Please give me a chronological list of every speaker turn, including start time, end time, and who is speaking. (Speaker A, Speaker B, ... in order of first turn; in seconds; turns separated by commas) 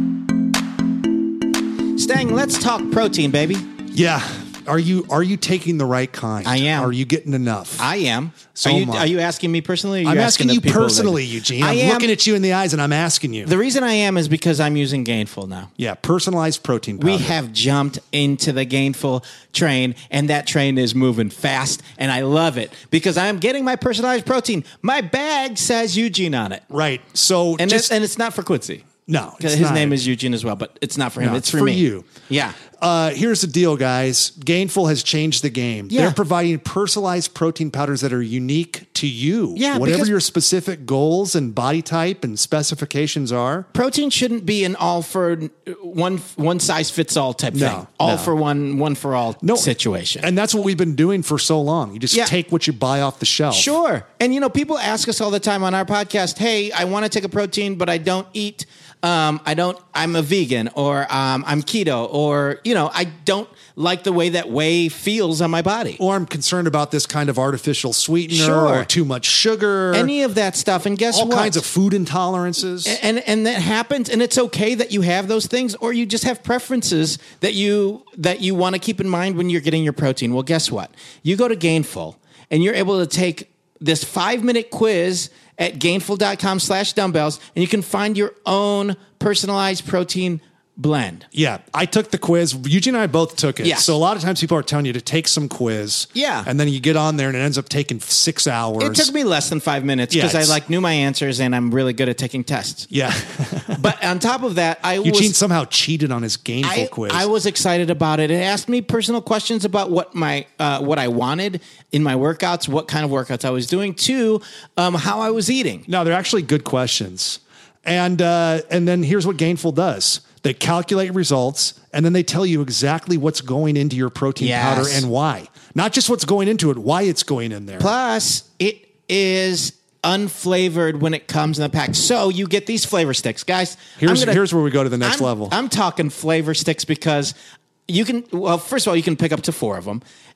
Speaker A: 1.9-3.6, Speaker B: 3.9-7.9, Speaker A: 6.4-6.9, Speaker A: 7.8-12.1, Speaker B: 8.5-9.1, Speaker B: 10.0-13.5, Speaker A: 13.4-15.7, Speaker B: 15.8-17.4, Speaker A: 17.0-26.6, Speaker B: 26.7-27.9, Speaker A: 27.6-28.9, Speaker B: 29.1-30.0, Speaker A: 29.4-32.6, Speaker B: 31.2-32.1, Speaker B: 32.7-43.7, Speaker A: 35.9-36.2, Speaker A: 39.5-40.1, Speaker A: 43.7-50.3, Speaker B: 47.5-48.3, Speaker B: 49.4-53.7, Speaker A: 53.5-66.0, Speaker B: 66.0-70.1, Speaker A: 68.3-68.9, Speaker A: 69.9-71.6, Speaker B: 71.1-73.0, Speaker A: 72.8-91.2, Speaker B: 91.3-99.1, Speaker A: 93.6-93.9, Speaker A: 96.1-96.5, Speaker A: 98.8-102.9, Speaker B: 100.1-100.6, Speaker B: 102.9-103.8, Speaker A: 103.7-105.3, Speaker B: 105.0-107.3, Speaker A: 106.6-115.8, Speaker B: 115.9-127.9, Speaker A: 124.4-125.0, Speaker A: 127.8-134.4, Speaker B: 134.0-135.5, Speaker A: 135.0-137.3, Speaker A: 137.9-140.0